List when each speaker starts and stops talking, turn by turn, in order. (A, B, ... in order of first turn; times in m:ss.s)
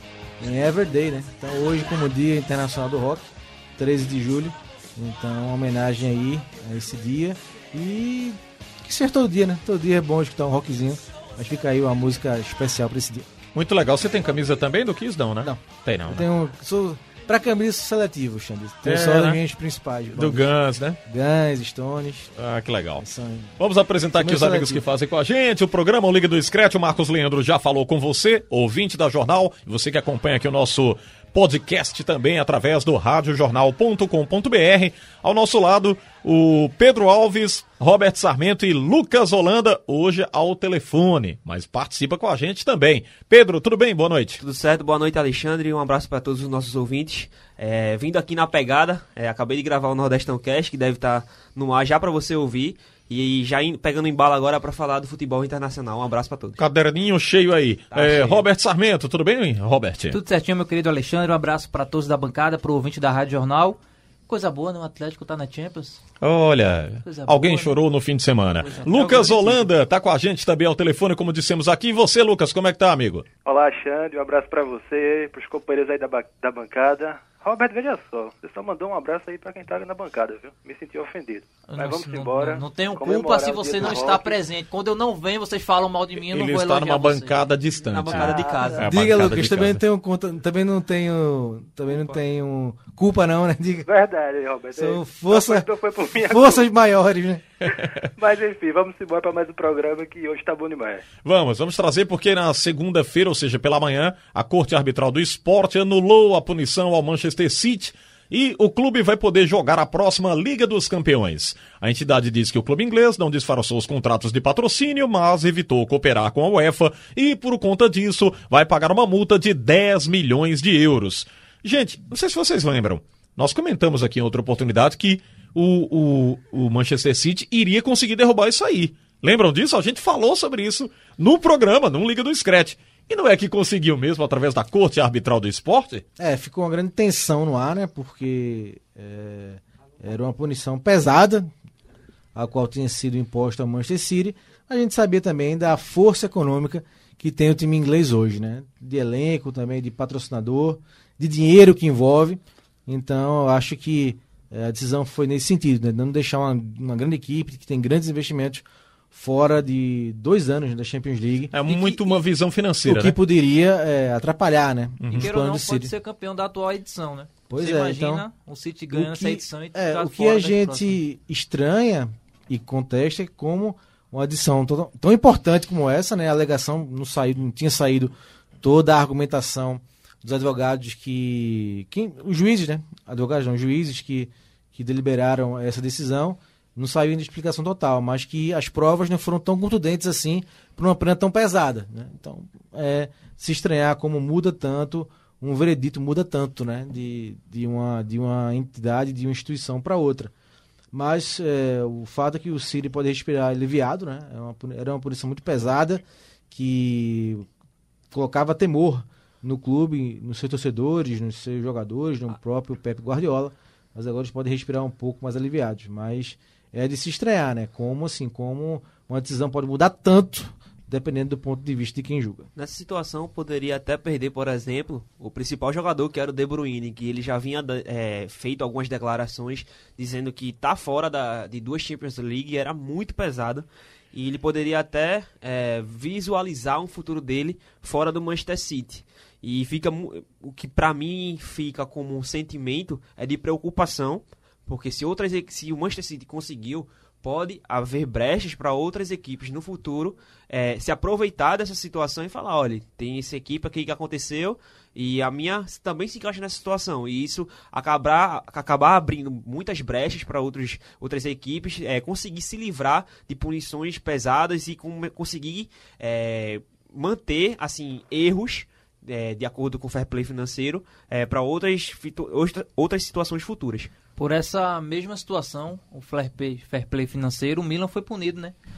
0:00.4-0:13.3 A
0:13.5-0:16.2 B
0:15.4-0:22.3 A
0:18.8-0:19.4 B
0:20.1-0:21.0 B
0:22.4-0:23.0 B
0:23.0-0:23.5 A
0:23.6-0:44.4 B
0:24.2-0:24.8 A
0:44.4-0:56.6 C
0:56.6-1:00.2 B
0:57.9-0:58.4 C
1:00.1-1:06.0 D
1:06.2-1:13.2 B
1:07.0-1:07.7 D
1:08.6-1:09.7 D
1:13.4-1:24.4 E
1:21.7-1:27.5 D
1:26.2-1:29.8 B
1:27.8-1:28.9 C
1:28.2-1:28.8 E
1:28.8-1:33.9 A
1:31.9-1:32.1 C
1:33.8-1:36.6 E
1:34.7-1:35.7 A
1:36.2-1:37.4 A
1:37.8-1:38.1 B
1:38.2-1:41.0 E
1:41.2-2:16.0 B
2:16.2-2:21.5 A
2:22.3-2:41.6 A
2:41.5-2:43.2 B
2:41.7-2:42.1 D
2:42.8-2:45.9 A
2:45.0-2:45.3 B
2:45.1-2:51.0 D
2:47.5-2:48.2 A
2:48.9-3:20.3 A
3:20.9-3:27.5 A
3:28.1-3:42.5 A
3:42.6-4:33.9 C
4:34.2-4:38.5 D